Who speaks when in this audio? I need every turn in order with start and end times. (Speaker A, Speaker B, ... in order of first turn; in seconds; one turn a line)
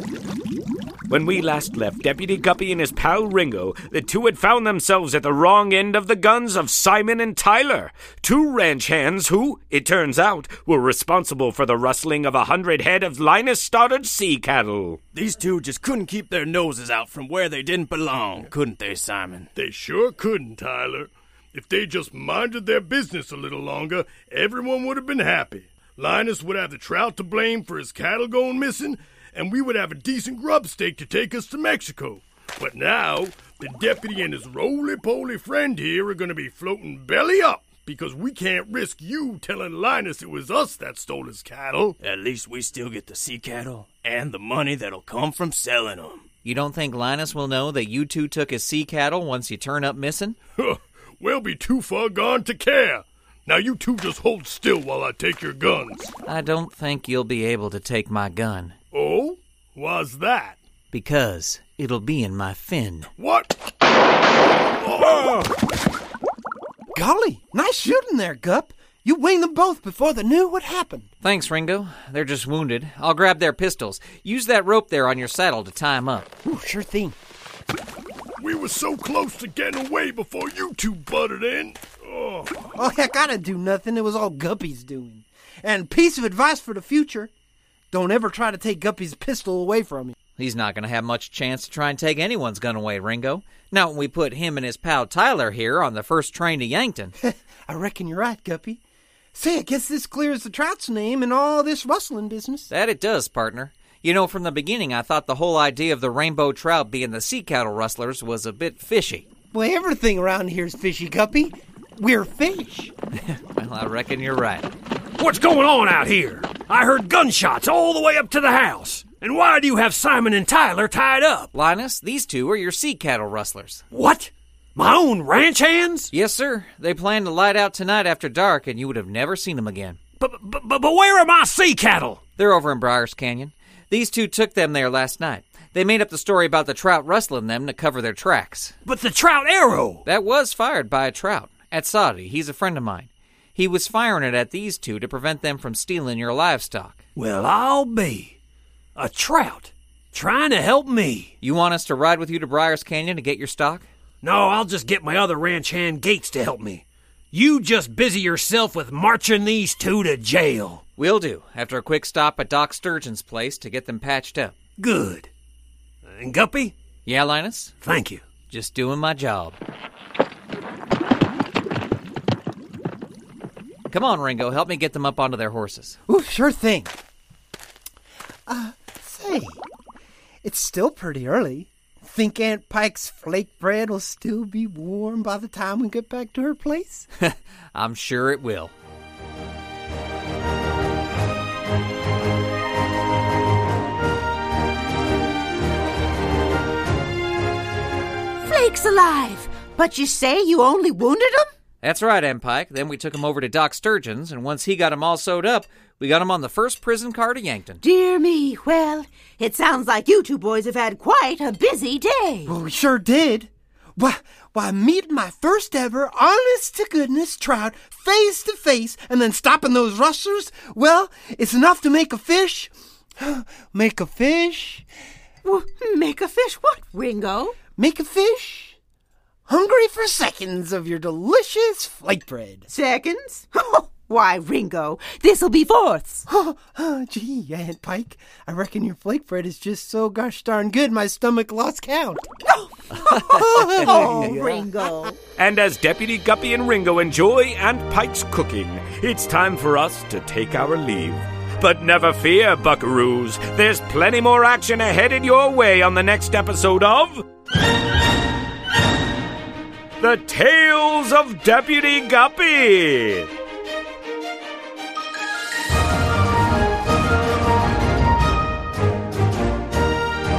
Speaker A: 1.1-15.0
Speaker B: 15.1-19.4
Speaker C: 18.3-19.2
Speaker D: 19.6-42.0
Speaker B: 42.0-46.2
Speaker E: 46.4-50.4
Speaker D: 50.6-56.1
Speaker E: 56.2-58.7
Speaker D: 58.9-60.6
Speaker E: 60.9-63.1
Speaker D: 63.2-63.5
Speaker D: 64.8-65.5
Speaker F: 66.9-71.1
Speaker E: 71.2-76.3
Speaker F: 76.4-77.2
Speaker D: 78.4-82.7
Speaker F: 82.8-87.3
Speaker F: 87.9-90.1
Speaker E: 90.4-97.1
Speaker F: 97.2-98.8
Speaker F: 99.3-102.7
Speaker E: 102.7-109.3
Speaker F: 109.5-112.9
Speaker E: 113.3-114.7
Speaker C: 115.2-121.5
Speaker E: 121.5-123.8
Speaker C: 123.9-126.1
Speaker E: 126.1-130.0
Speaker C: 130.2-132.2
Speaker E: 132.4-138.7
Speaker C: 138.8-140.0
Speaker E: 140.1-147.0
Speaker C: 147.2-148.3
Speaker C: 148.9-151.3
Speaker E: 151.4-153.9
Speaker C: 154.2-160.8
Speaker E: 161.0-164.5
Speaker C: 164.8-165.3
Speaker C: 166.1-166.7
Speaker E: 167.0-167.7
Speaker C: 167.8-168.2
Speaker E: 168.5-169.6
Speaker E: 173.9-176.0
Speaker F: 176.1-176.9
Speaker F: 178.5-179.6
Speaker F: 180.4-187.1
Speaker E: 187.2-188.7
Speaker G: 198.4-201.5
Speaker E: 201.8-207.8
Speaker G: 207.8-212.5
Speaker F: 212.4-224.8
Speaker G: 225.4-227.6
Speaker F: 227.8-228.8
Speaker F: 229.5-232.7
Speaker G: 232.7-236.2
Speaker F: 236.3-242.3
Speaker G: 242.4-245.2
Speaker F: 243.2-244.4
Speaker A: 245.4-257.2
Speaker A: 260.0-263.3